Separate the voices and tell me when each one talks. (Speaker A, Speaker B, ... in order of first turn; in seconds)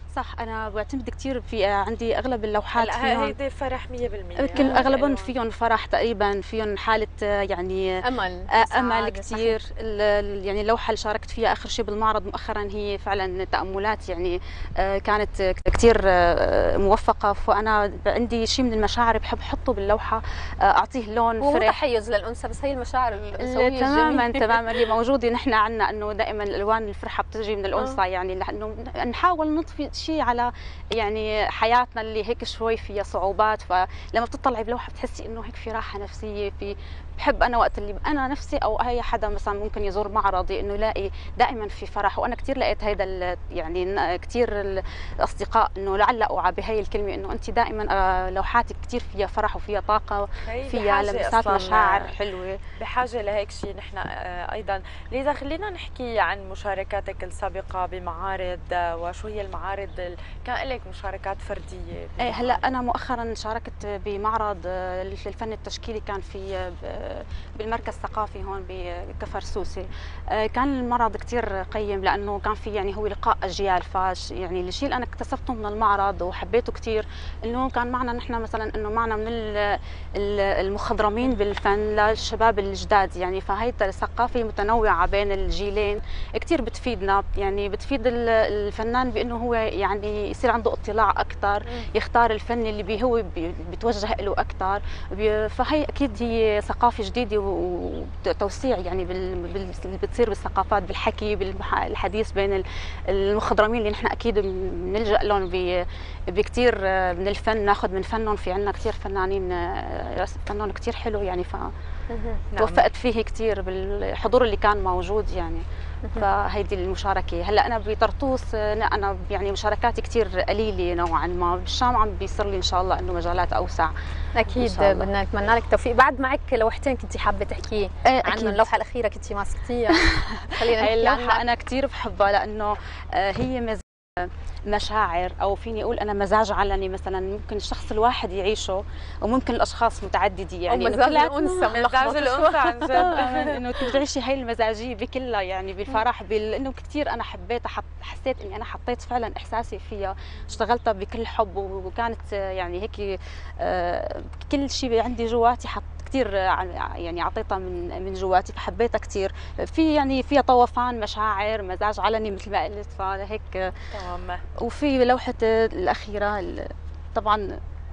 Speaker A: 0.1-3.3, 4.3-21.8, 23.4-52.6, 62.2-111.7, 112.5-115.6, 116.1-123.9, 124.5-125.1, 128.0-128.7, 130.0-141.8, 142.9-163.8, 164.6-167.5
Speaker B: 2.7-5.3, 50.4-52.1, 52.8-62.6, 112.5-112.8, 141.7-143.6, 163.9-164.4
Speaker C: 4.5-4.8, 8.0-9.5, 21.4-24.6, 112.1-112.4, 124.3-131.4, 140.7-143.6